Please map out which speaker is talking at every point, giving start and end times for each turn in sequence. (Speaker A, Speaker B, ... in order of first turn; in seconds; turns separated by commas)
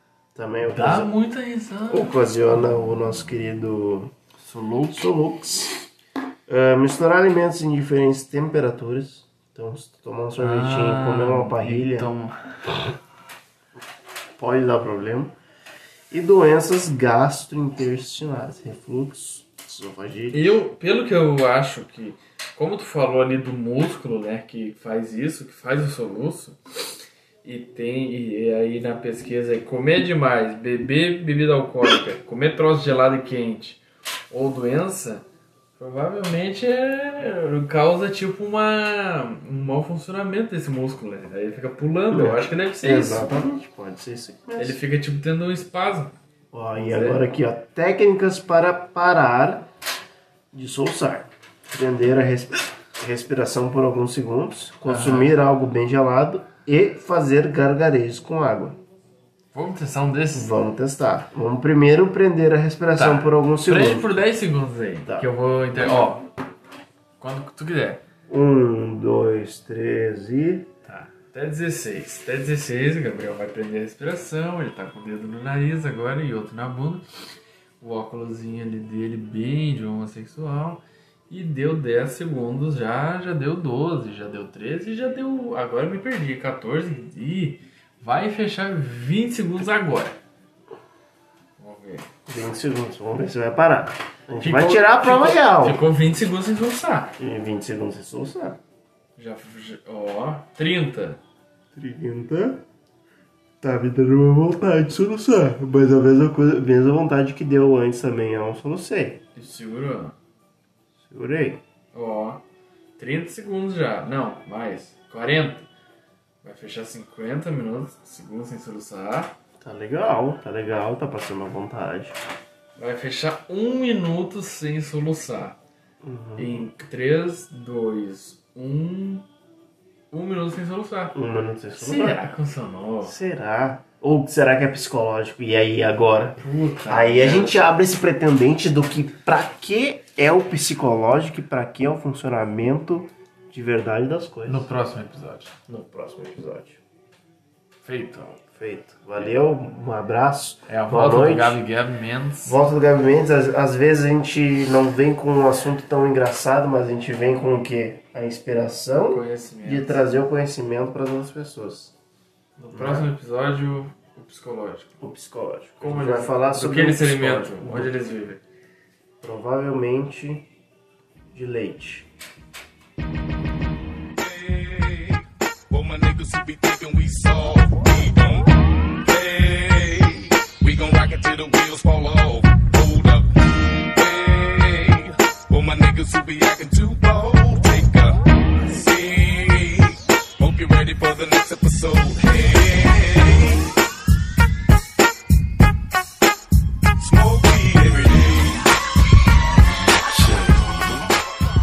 Speaker A: 0.3-1.1, Speaker B: 0.6-2.1, Speaker A: 1.9-4.1, Speaker B: 4.4-5.1, Speaker A: 4.9-5.9, Speaker A: 6.5-12.1, Speaker B: 10.4-12.9, Speaker A: 14.4-15.3, Speaker A: 16.1-20.4, Speaker B: 20.3-35.2, Speaker B: 35.8-43.3, Speaker A: 42.1-44.8, Speaker B: 44.6-46.1, Speaker A: 46.5-49.7, Speaker B: 46.7-47.2, Speaker A: 50.5-58.8, Speaker B: 54.9-55.4, Speaker B: 59.5-60.5, Speaker A: 60.3-64.1, Speaker B: 63.0-66.3, Speaker B: 67.2-68.0, Speaker A: 68.3-70.7, Speaker B: 70.8-77.0, Speaker B: 77.8-90.2, Speaker B: 91.6-92.1, Speaker A: 92.3-95.8, Speaker B: 94.3-97.1, Speaker A: 97.2-98.6, Speaker B: 99.2-101.2, Speaker A: 101.7-102.6, Speaker A: 103.6-109.2, Speaker B: 109.3-110.2, Speaker A: 111.0-111.6, Speaker B: 111.9-112.4, Speaker B: 113.0-115.7, Speaker B: 116.4-119.4, Speaker A: 119.6-122.2, Speaker B: 122.8-125.6, Speaker A: 126.0-126.7, Speaker B: 126.4-129.2, Speaker B: 130.1-131.1, Speaker A: 131.1-132.2, Speaker B: 131.7-133.1, Speaker A: 133.0-144.7, Speaker B: 136.4-137.6, Speaker B: 144.4-145.5, Speaker A: 145.7-146.8, Speaker B: 147.8-148.4, Speaker A: 148.5-151.6, Speaker B: 150.7-152.6, Speaker A: 152.4-161.9, Speaker B: 158.9-160.0, Speaker B: 162.6-164.9, Speaker A: 162.7-163.1, Speaker A: 165.0-167.9, Speaker B: 165.8-168.4, Speaker A: 169.2-170.5, Speaker A: 171.3-172.1, Speaker C: 174.2-178.5, Speaker C: 179.0-193.7, Speaker C: 197.0-198.8, Speaker C: 200.0-201.2